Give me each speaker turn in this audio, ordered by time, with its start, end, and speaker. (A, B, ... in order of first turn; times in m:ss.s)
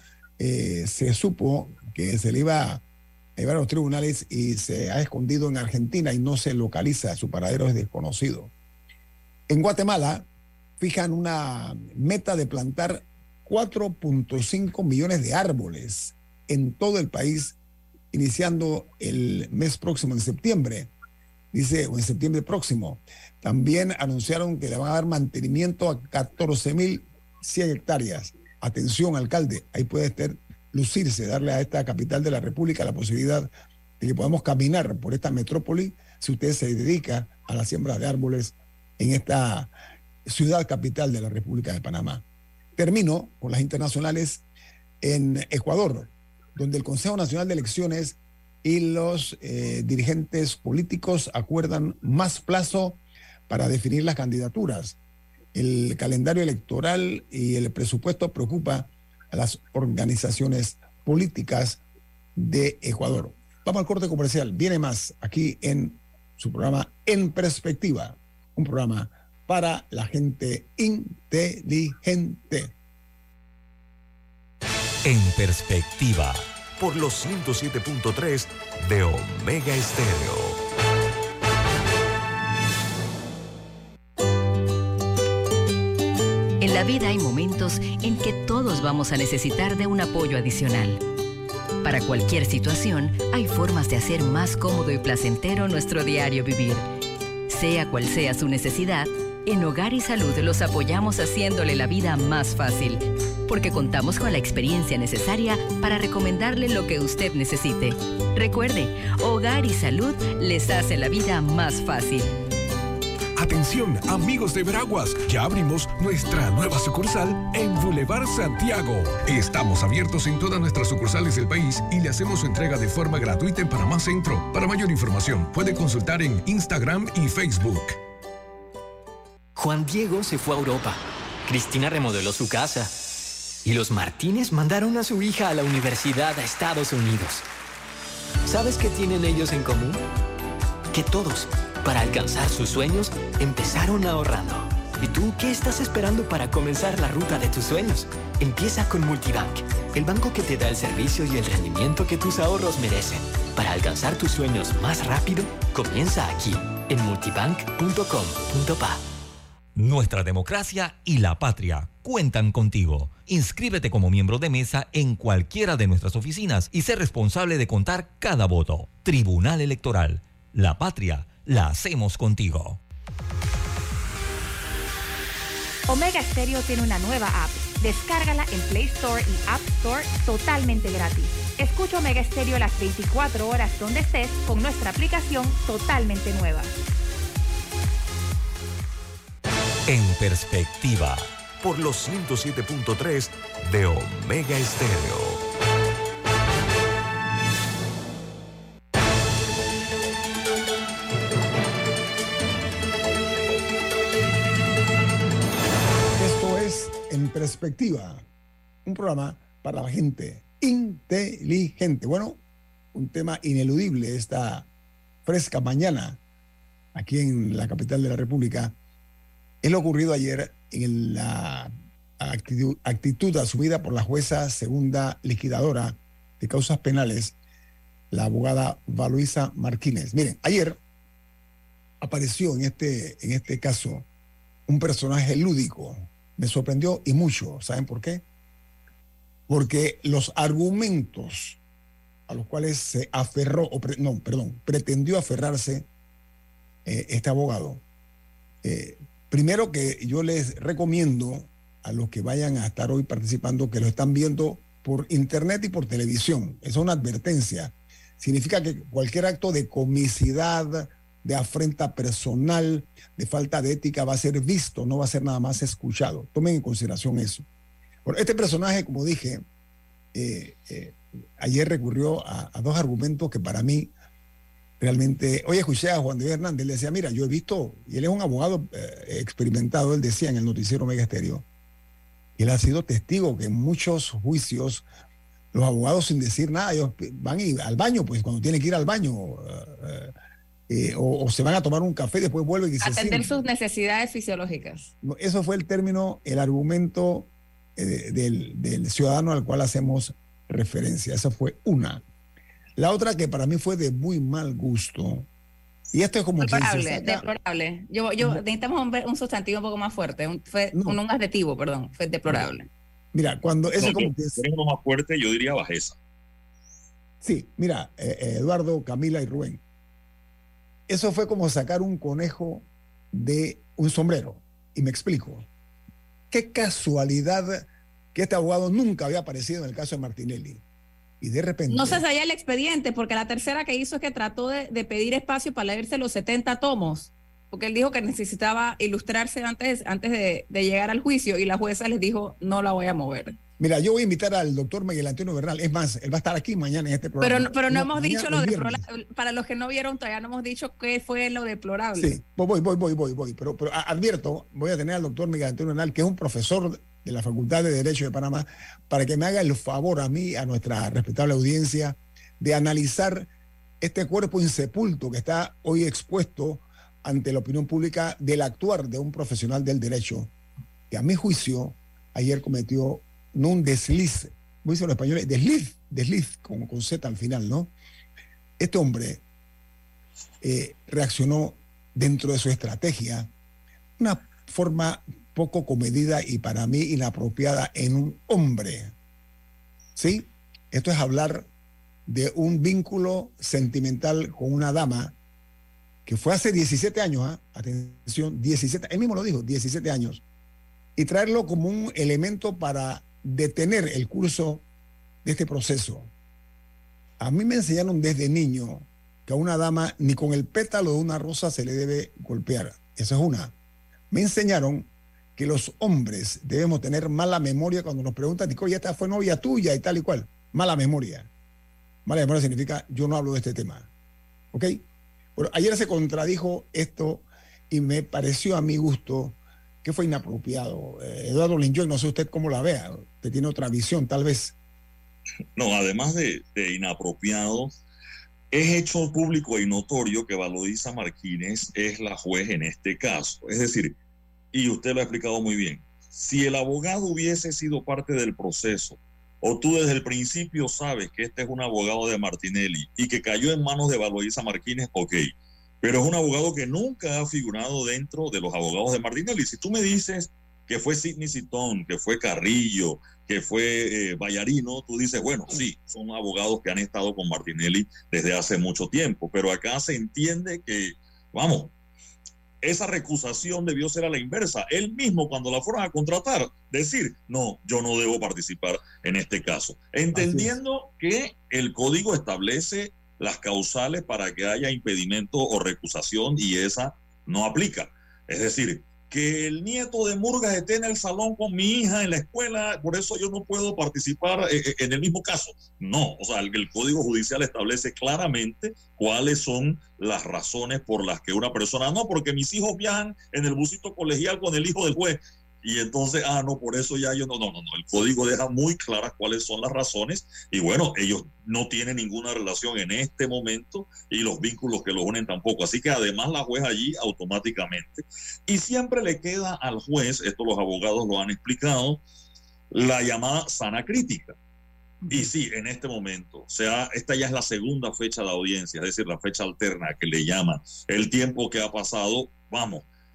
0:00.4-0:02.8 A
0:03.4-0:08.5 A
0:09.5-0:10.3 A
0:10.8-0:17.6 A
0:18.1-0:20.9 A
0:21.5-0:39.7 A
0:40.2-0:42.2 A
0:42.8-0:44.4 A
0:45.0-0:55.0 A
0:55.5-1:01.8 A
1:02.4-1:12.7 A
1:15.0-1:16.6 B
1:16.8-1:20.6 C
1:26.6-1:31.0 D
1:31.8-1:36.8 D
1:37.5-1:52.3 D
1:53.4-2:08.0 E
2:09.5-2:12.9 F
2:13.6-2:17.4 F
2:18.4-2:20.0 F
2:20.9-2:39.0 F
2:39.8-2:52.8 B
2:55.9-3:06.7 G
3:09.9-3:11.3 B
3:11.6-3:15.4 C
3:26.1-3:28.2 A
3:28.8-3:32.4 A
3:32.9-3:34.7 A
3:35.2-3:36.2 A
3:36.9-3:38.8 A
3:39.6-3:47.3 A
3:48.1-3:50.8 A
3:52.0-3:54.1 A
3:54.7-3:58.2 A
3:59.5-4:01.6 A
4:02.3-4:05.9 A
4:06.8-4:07.8 A
4:08.6-4:27.4 A
4:28.0-4:29.4 A
4:30.1-4:33.9 A
4:34.8-4:41.4 A
4:42.4-4:44.8 A
4:45.5-4:50.1 A
4:50.7-4:53.3 A
4:52.8-4:54.9 H
4:55.0-5:02.0 A
5:02.8-5:05.3 A
5:05.9-5:07.2 A
5:06.4-5:12.7 H
5:10.7-5:11.0 A
5:13.1-5:14.4 A
5:13.8-5:16.0 I
5:17.2-5:19.6 A
5:20.9-5:25.5 A
5:26.3-5:30.6 A
5:31.2-5:32.0 A
5:31.7-5:43.4 H
5:43.6-5:48.8 A
5:47.2-5:52.2 H
5:51.9-6:03.3 A
6:03.8-6:10.3 A
6:10.9-6:17.7 A
6:18.6-6:19.2 A
6:20.4-6:23.3 A
6:24.0-6:28.9 A
6:30.0-6:31.5 A
6:32.0-6:35.1 A
6:36.0-6:40.2 A
6:41.0-6:44.6 A
6:45.2-6:46.1 A
6:47.2-6:53.5 A
6:54.1-7:01.3 A
7:02.0-7:03.9 A
7:04.5-7:04.8 A
7:05.4-7:14.5 A
7:15.6-7:17.8 I
7:18.5-7:24.0 I
7:24.5-7:51.7 I
7:52.6-8:42.0 I
8:00.1-8:00.5 A
8:42.7-8:44.4 I
8:45.1-8:52.8 I